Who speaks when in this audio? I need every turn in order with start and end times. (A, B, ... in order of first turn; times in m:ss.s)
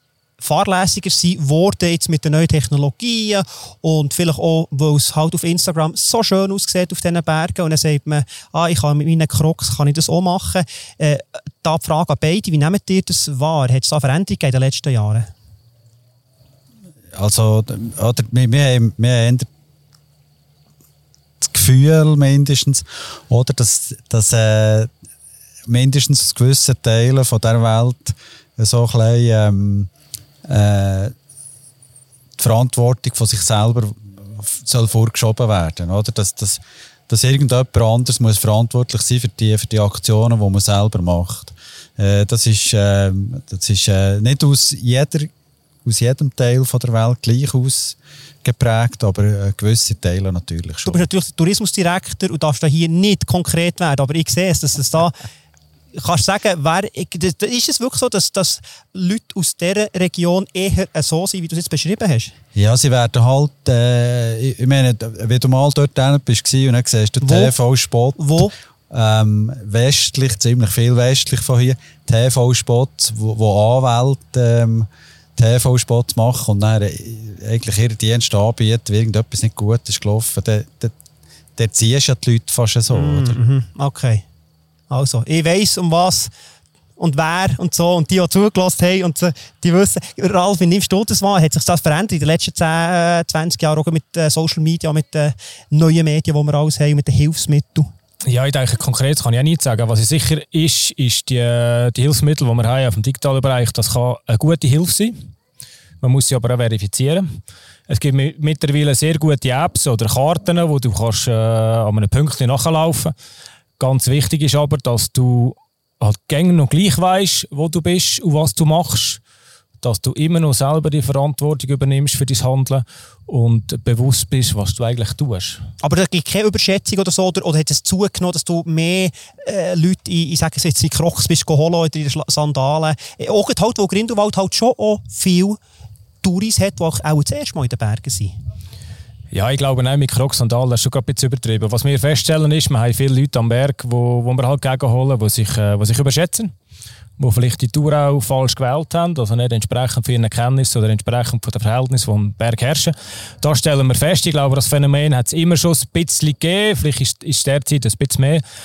0:00.4-0:15.3 A
0:17.1-0:19.5 B
0:21.4-0:24.9 B
0:25.7-0:29.9 B
0:30.5-0:31.1 B
0:32.4-0:45.3 B
0:45.8-0:51.1 B
0:50.8-0:55.2 A
0:56.0-1:02.3 A
1:02.6-1:21.0 B
1:07.2-1:07.5 A
1:08.2-1:08.5 A
1:21.6-1:23.4 B
1:22.9-1:24.2 A
1:24.9-1:26.3 A
1:27.0-1:37.9 A
1:38.3-1:45.2 C
1:46.0-1:47.3 C
1:47.9-1:53.1 C
1:53.8-1:59.2 C
1:59.8-2:05.6 C
2:05.8-2:15.6 A
2:16.2-2:18.3 A
2:19.3-2:26.5 C
2:27.2-2:38.4 C